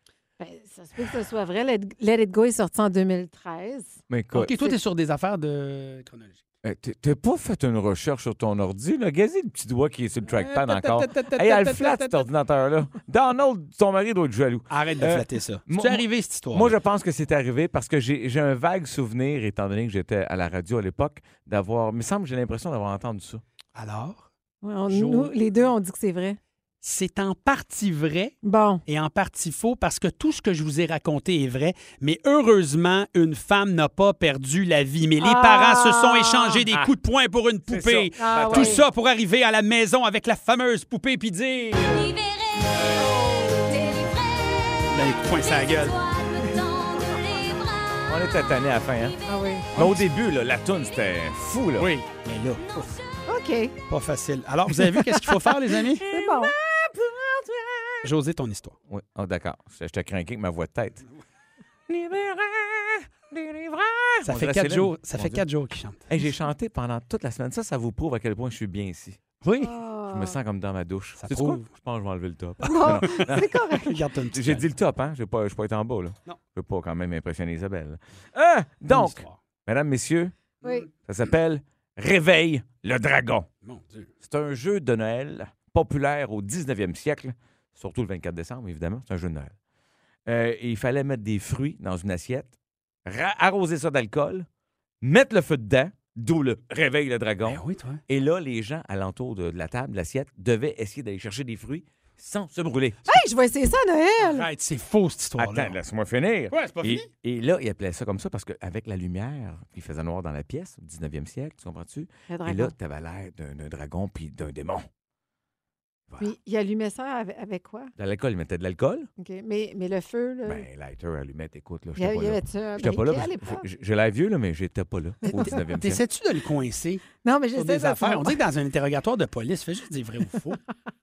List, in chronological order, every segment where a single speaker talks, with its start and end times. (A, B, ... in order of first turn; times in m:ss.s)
0:00.4-0:04.0 A
0:04.1-0:04.6 B
0:04.3-0:06.4 C
0:06.6-0:23.4 B
0:10.2-0:12.2 C
0:14.7-0:16.8 C
0:23.8-0:24.3 C
0:24.6-0:26.4 A
0:24.9-0:25.3 C
0:26.8-0:42.2 C
0:28.4-0:28.8 A
0:35.2-0:36.6 A
0:37.7-0:38.8 B
0:38.2-0:38.8 A
0:43.0-0:44.1 A
0:44.9-0:46.0 C
0:48.1-0:49.2 B
0:49.2-0:49.7 A
0:49.7-0:50.0 C
0:49.7-0:51.9 B
0:51.8-0:53.0 C
0:53.3-0:53.7 A
0:53.9-0:56.0 C
0:56.0-0:56.5 A
0:56.1-0:58.1 B
0:58.0-0:58.8 C
0:58.9-1:01.0 B
1:01.9-1:05.4 B
1:04.2-1:06.0 C
1:06.1-1:09.2 B
1:09.4-1:09.7 C
1:09.6-1:10.4 A
1:10.1-1:13.6 B
1:11.2-1:11.6 C
1:12.6-1:13.9 A
1:12.7-1:14.6 C
1:14.3-1:20.3 B
1:18.9-1:19.4 C
1:20.6-1:20.9 A
1:21.0-1:23.5 B
1:23.6-1:24.1 C
1:24.2-1:29.5 B
1:30.2-1:32.5 B
1:33.0-1:34.5 B
1:35.0-1:43.0 B
1:37.4-1:38.0 C
1:43.1-1:44.5 A
1:44.2-1:45.8 C
1:45.4-1:54.8 B
1:46.5-1:47.0 C
1:52.3-1:52.7 A
1:56.2-1:57.9 A
1:58.0-1:59.1 B
1:59.2-2:00.6 A
2:00.4-2:06.0 B
2:02.0-2:03.6 A
2:05.3-2:10.6 C
2:07.2-2:08.4 A